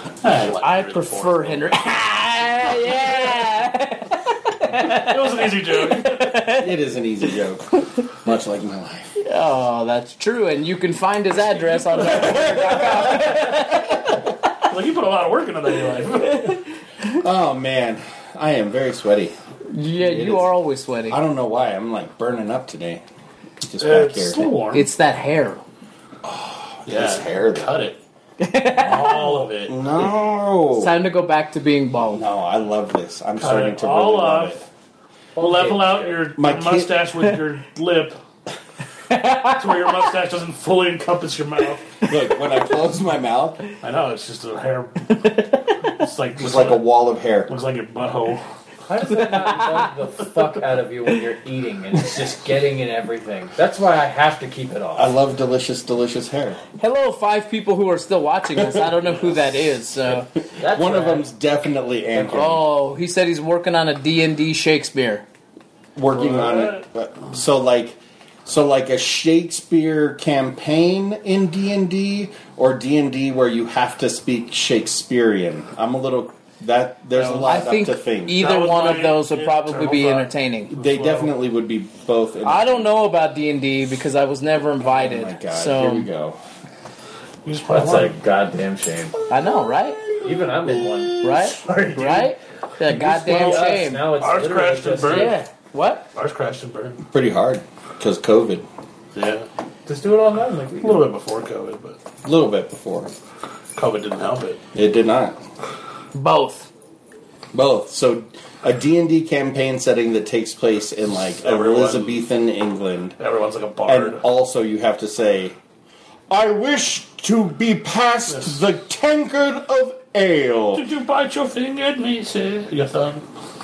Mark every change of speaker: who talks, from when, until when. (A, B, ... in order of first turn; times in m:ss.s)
0:00.2-0:01.8 A
0:00.6-0:06.7 B
0:04.7-0:06.4 A
0:06.5-0:09.1 C
0:09.2-0:14.2 B
0:11.9-0:13.9 C
0:14.7-0:16.6 A
0:16.3-0:17.2 B
0:17.1-0:19.3 C
0:19.7-0:21.2 B
0:20.0-0:20.5 C
0:21.1-0:23.0 C
0:23.6-0:24.5 C
0:23.8-0:24.9 A
0:24.7-0:25.6 B
0:26.2-0:27.7 C
0:26.9-0:28.0 A
0:28.4-0:29.3 B
0:28.8-0:29.9 A
0:29.6-0:30.9 C
0:30.8-0:32.2 B
0:32.1-0:34.6 C
0:33.4-0:34.6 A
0:35.4-0:36.2 D
0:35.4-0:38.2 A
0:36.4-0:36.9 C
0:39.1-0:39.7 B
0:39.4-0:41.9 A
0:42.0-0:43.6 C
0:43.8-0:45.2 A
0:45.2-0:45.6 B
0:45.9-0:46.8 A
0:46.4-0:47.5 C
0:47.5-0:48.4 A
0:48.8-0:55.1 D
0:49.2-0:49.9 B
0:54.9-0:56.6 C
0:56.8-1:00.3 B
0:58.6-0:58.8 C
1:00.6-1:01.2 D
1:00.6-1:02.6 C
1:02.2-1:05.2 B
1:06.0-1:18.4 C
1:06.1-1:06.8 A
1:17.1-1:17.5 A
1:17.4-1:20.7 B
1:18.3-1:21.3 A
1:20.7-1:22.9 C
1:22.4-1:26.1 B
1:24.8-1:26.4 C
1:27.4-1:28.2 A
1:27.7-1:29.2 D
1:29.3-1:30.0 B
1:29.3-1:31.5 C
1:30.2-1:32.3 D
1:31.2-1:34.1 B
1:32.9-1:35.4 D
1:33.2-1:35.4 A
1:35.1-1:36.0 B
1:36.1-1:37.0 A
1:37.1-1:38.6 C
1:39.1-1:39.5 A
1:39.8-1:41.1 D
1:40.8-1:42.0 A
1:42.2-1:43.1 C
1:43.8-1:44.6 A
1:44.7-1:45.4 C
1:46.1-1:46.7 B
1:47.5-1:53.2 C
1:51.4-1:52.2 A
1:53.2-1:54.2 A
1:53.8-1:55.6 C
1:56.3-2:00.8 C
1:58.3-1:58.5 A
2:00.7-2:03.2 A